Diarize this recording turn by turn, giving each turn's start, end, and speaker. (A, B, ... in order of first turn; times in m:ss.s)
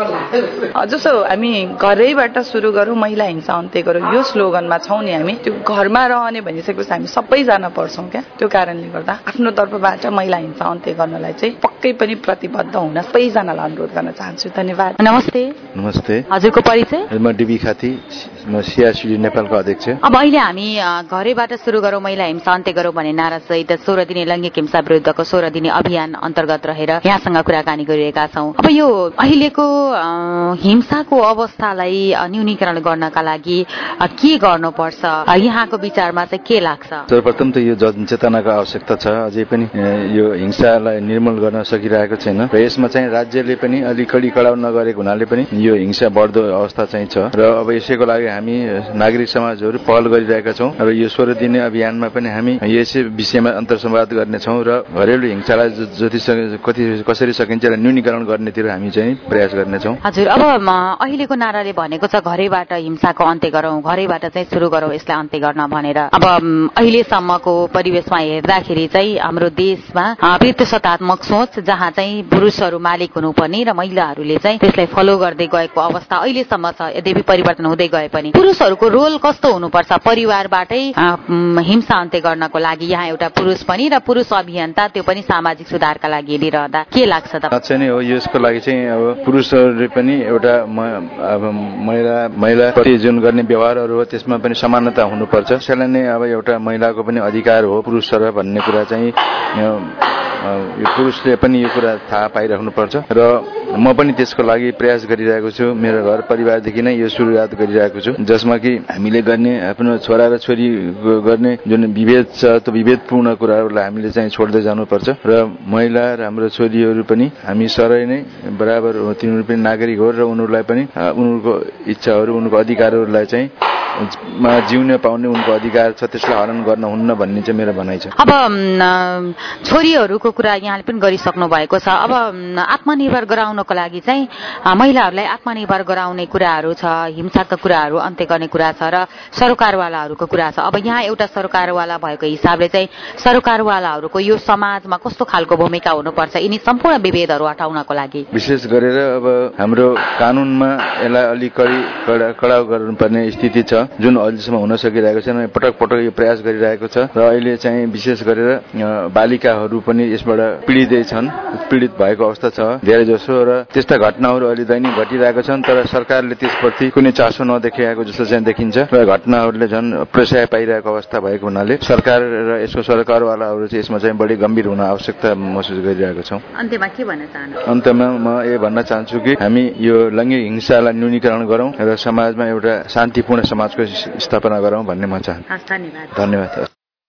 0:00.7-0:15.0 A
0:15.0-0:15.5 B
0:15.7-0:16.2 C
0:16.3-0:17.1 B
0:17.1-0:20.0 C
0:20.0-0:37.0 B
0:37.1-1:00.0 C
1:00.0-1:27.5 B
1:27.5-2:08.1 C
2:08.2-2:28.2 B
2:28.3-2:56.4 C
2:56.6-2:57.5 B
2:57.6-3:05.4 C
3:05.6-3:06.1 B
3:06.1-3:06.7 C